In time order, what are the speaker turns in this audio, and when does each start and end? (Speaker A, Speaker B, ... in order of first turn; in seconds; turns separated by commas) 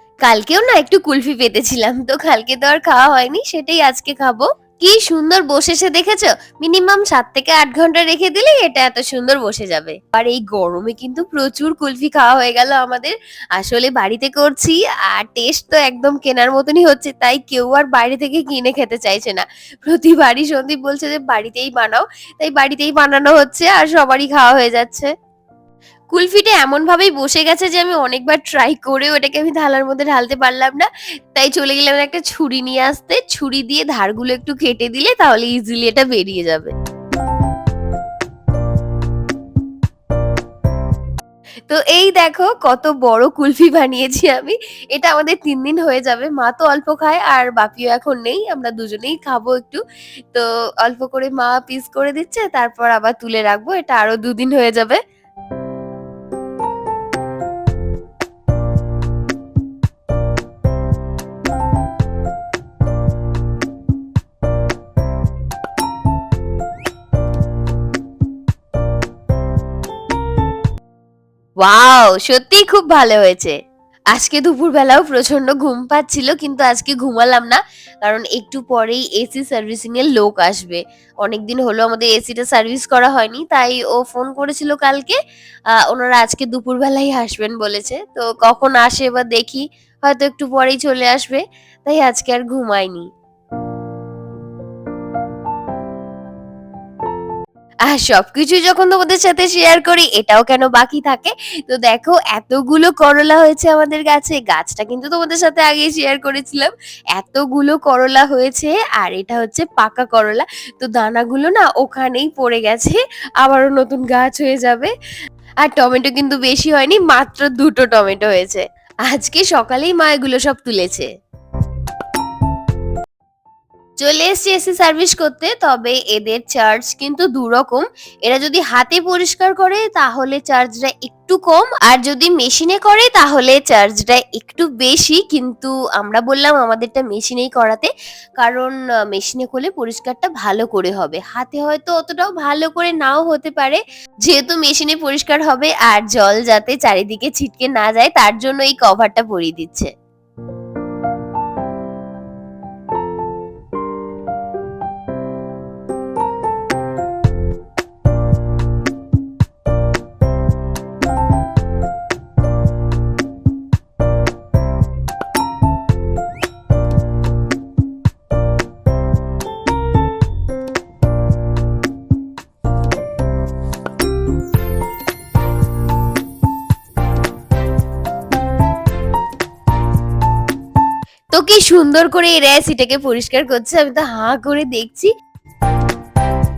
Speaker A: 0.2-25.1, Speaker A: 26.1-36.7, Speaker A: 41.7-49.8, Speaker A: 50.3-55.0, Speaker A: 71.6-73.6, Speaker A: 74.1-85.2, Speaker A: 85.7-93.1, Speaker A: 97.9-114.9, Speaker A: 115.6-121.1, Speaker A: 124.0-149.9, Speaker A: 181.3-185.1